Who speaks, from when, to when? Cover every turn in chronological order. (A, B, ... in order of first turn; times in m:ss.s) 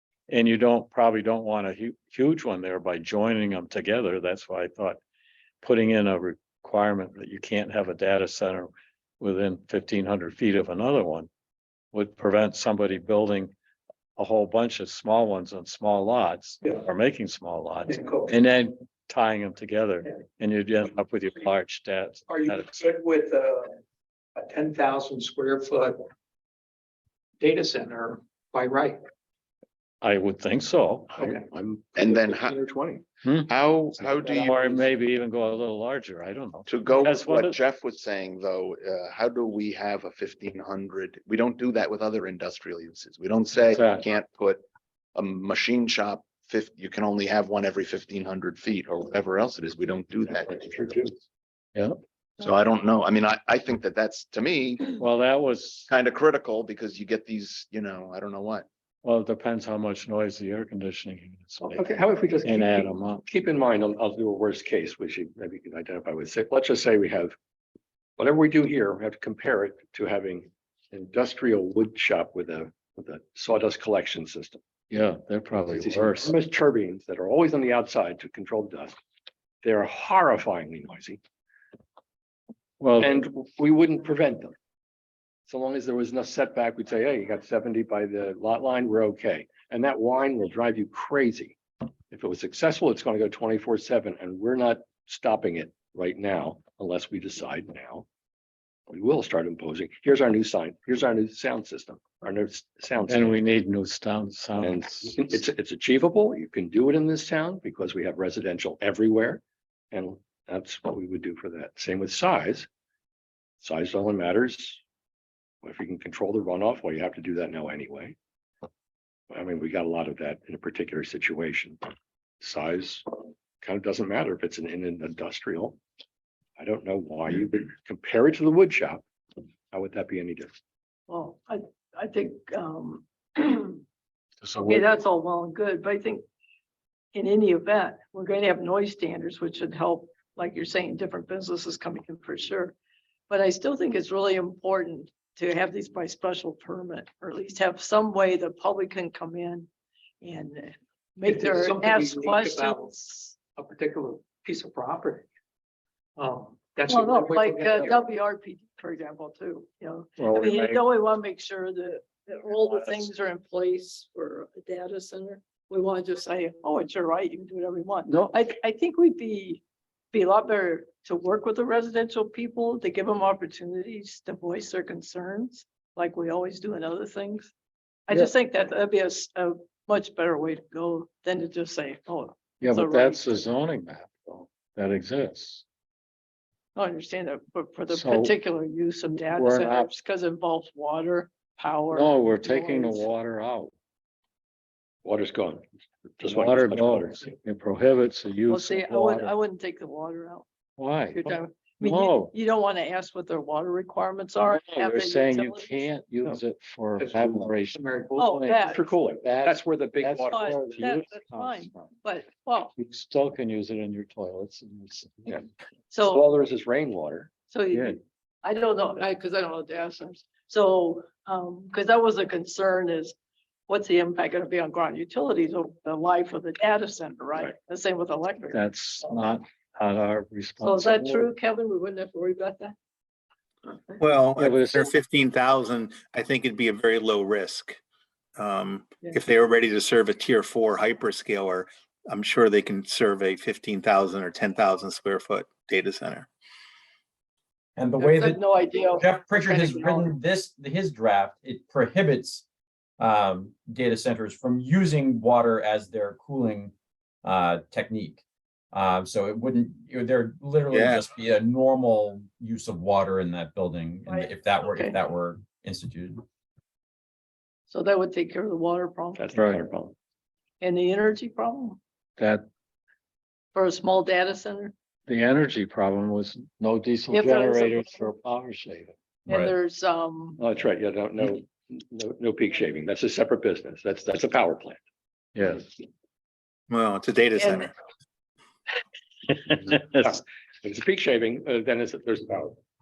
0:00.3-0:05.0 A
0:05.6-0:11.3 A
0:11.9-0:13.5 A
0:14.2-0:22.7 A
0:17.9-0:18.3 B
0:22.3-0:23.8 B
0:24.4-0:26.0 B
0:27.4-0:29.0 B
0:30.0-0:31.1 A
0:31.1-0:33.0 C
0:32.0-0:32.6 D
0:33.2-0:37.6 A
0:33.5-0:34.7 D
0:36.7-0:44.6 D
0:43.7-0:44.0 A
0:45.1-0:51.1 D
0:52.4-0:55.0 D
0:54.9-0:55.9 A
0:55.9-0:58.6 D
0:59.0-1:03.2 A
1:01.6-1:07.4 C
1:08.2-1:14.6 C
1:14.9-1:16.3 A
1:15.7-1:19.0 C
1:19.6-1:21.2 C
1:22.8-1:23.1 A
1:23.0-1:24.5 C
1:25.5-1:31.6 C
1:32.1-1:38.0 C
1:38.9-1:43.4 C
1:43.1-1:45.2 A
1:44.6-1:52.7 C
1:53.6-1:54.8 C
1:55.6-1:58.2 C
1:59.3-2:01.8 C
2:02.4-2:03.0 C
2:03.6-2:05.8 C
2:06.6-2:09.0 C
2:09.7-2:10.5 C
2:11.1-2:13.8 E
2:14.4-2:14.9 A
2:14.6-2:16.2 E
2:17.1-2:22.7 E
2:23.3-2:29.7 E
2:30.2-2:33.4 E
2:31.2-2:32.9 B
2:33.5-2:35.3 B
2:36.2-2:38.1 B
2:36.9-2:57.5 E
2:40.2-2:40.8 A
2:48.1-2:48.4 A
2:58.1-3:03.4 E
3:02.6-3:05.6 A
3:06.8-3:13.0 E
3:07.9-3:08.4 A
3:09.1-3:09.9 A
3:11.9-3:13.7 A
3:15.0-3:15.6 C
3:16.2-3:17.2 C
3:16.2-3:19.3 A
3:18.5-3:20.4 E
3:20.8-3:22.3 A
3:21.1-3:25.9 E
3:24.4-3:31.9 A
3:27.0-3:28.2 B
3:28.2-3:28.9 E
3:28.7-3:30.9 C
3:30.3-3:32.7 E
3:32.8-3:35.4 A
3:35.9-3:36.2 E
3:36.0-3:37.3 C
3:37.5-3:43.1 E
3:37.7-3:38.0 A
3:43.7-3:48.6 E
3:48.5-3:51.2 A
3:50.6-3:52.7 E
3:54.0-3:57.8 F
3:54.4-3:54.9 A
3:58.4-4:06.3 F
4:07.8-4:12.4 G
4:08.0-4:10.1 E
4:13.0-4:16.7 G
4:17.2-4:18.2 G
4:18.7-4:26.2 G
4:20.7-4:21.0 D
4:24.1-4:25.0 E
4:27.7-4:29.3 E
4:29.2-4:29.9 C
4:29.3-4:29.6 A
4:30.6-4:31.8 E
4:32.2-4:32.4 A
4:33.5-4:34.7 E
4:35.1-4:39.5 A
4:37.1-4:38.1 E
4:39.2-4:40.4 E
4:40.4-4:44.8 C
4:45.3-4:45.7 A
4:46.7-4:47.7 F
4:47.4-4:47.7 E
4:49.3-4:50.2 A
4:49.7-4:52.6 C